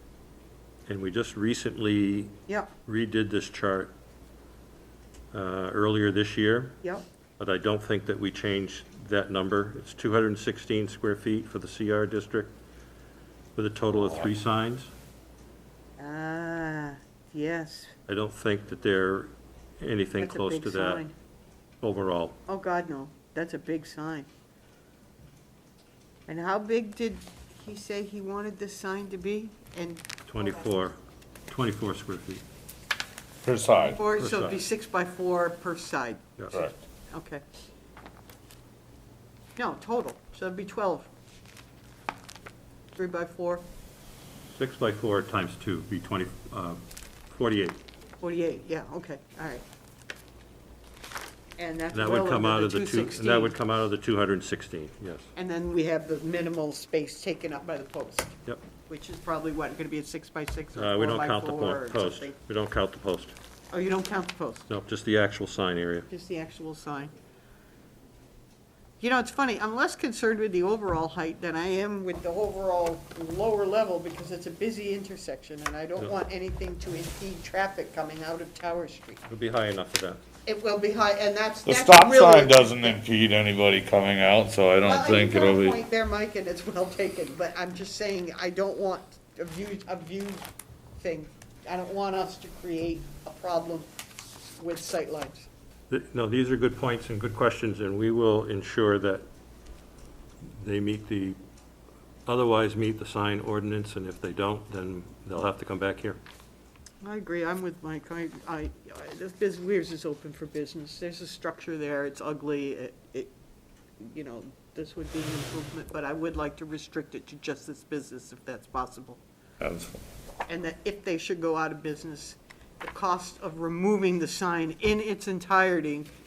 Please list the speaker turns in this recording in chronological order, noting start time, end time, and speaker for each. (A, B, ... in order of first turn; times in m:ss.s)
0:00.9-0:03.9 A
0:05.3-0:06.8 A
0:07.4-0:12.6 A
0:13.6-0:14.9 A
0:16.0-0:17.9 B
0:18.1-0:21.0 A
0:20.2-0:21.1 B
0:21.8-0:22.4 A
0:22.5-0:24.3 B
0:26.3-0:30.7 B
0:30.3-0:31.0 A
0:31.5-0:32.4 A
0:33.4-0:34.0 C
0:33.8-0:37.4 B
0:34.2-0:34.6 A
0:39.6-0:41.1 B
0:43.0-0:43.6 B
0:44.6-0:47.8 A
0:48.2-0:49.6 B
0:51.6-0:53.6 B
0:51.9-0:55.3 A
0:55.4-1:02.4 B
1:00.8-1:03.4 A
1:03.7-1:04.7 B
1:04.7-1:06.1 A
1:06.1-1:07.1 B
1:09.0-1:19.2 B
1:19.3-1:20.2 A
1:20.5-1:23.0 B
1:21.6-1:25.8 C
1:24.8-1:30.5 B
1:31.0-1:33.9 B
1:34.6-1:35.5 B
1:35.9-1:39.2 A
1:40.4-1:41.4 A
1:42.3-1:46.2 A
1:47.0-1:53.3 B
1:54.0-1:59.2 B
1:59.6-2:00.0 C
2:00.5-2:06.1 B